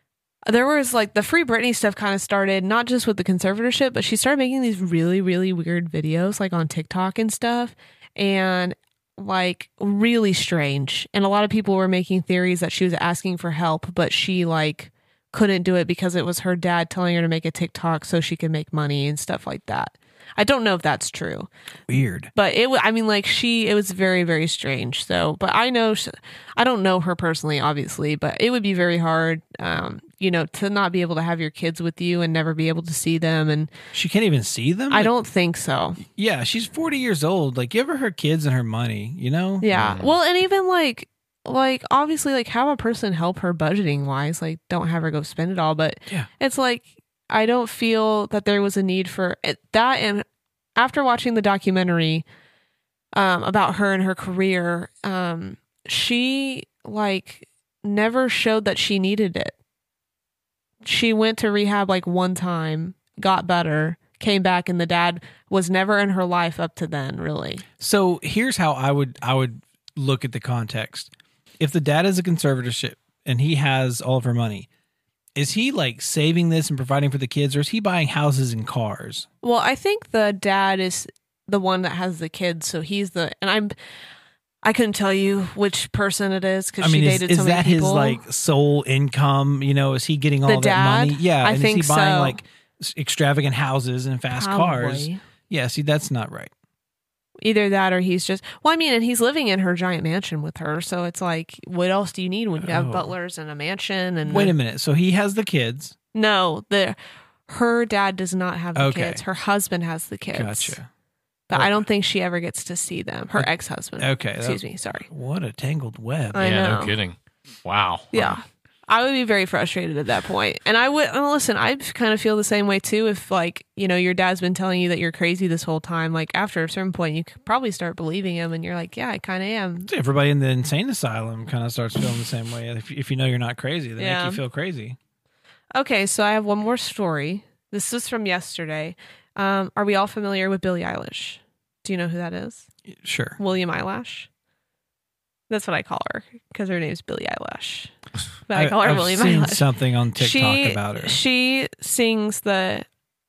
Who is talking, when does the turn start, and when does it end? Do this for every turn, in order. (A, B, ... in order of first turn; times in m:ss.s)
0:00.5-0:21.5 A
0:21.9-0:22.3 B
0:22.3-0:33.7 A
0:33.9-0:35.1 B
0:34.9-0:36.0 A
0:36.0-0:39.7 B
0:39.6-0:50.2 A
0:39.7-0:40.1 C
0:50.8-0:52.2 A
0:53.1-0:59.5 A
1:00.8-1:07.6 A
1:07.8-1:14.7 B
1:15.4-1:19.3 B
1:19.4-1:23.7 A
1:24.6-1:28.2 A
1:26.8-1:36.5 B
1:30.5-1:32.4 A
1:34.3-1:35.2 A
1:37.4-1:44.5 A
1:42.6-1:43.1 B
1:44.3-1:45.9 B
1:46.1-1:47.0 A
1:47.5-1:50.8 A
1:48.8-1:49.2 B
1:50.3-1:50.9 B
1:51.5-1:55.1 A
1:51.5-1:51.8 B
1:53.3-1:56.4 B
1:56.3-1:56.9 A
1:56.4-1:58.4 C
1:58.1-2:09.9 A
2:09.9-2:15.0 B
2:14.0-2:14.4 A
2:15.7-2:22.6 A
2:22.9-2:23.4 B
2:23.4-2:24.3 A
2:25.5-2:27.9 A
2:28.5-2:29.6 A
2:28.5-2:31.2 B
2:30.2-2:32.8 A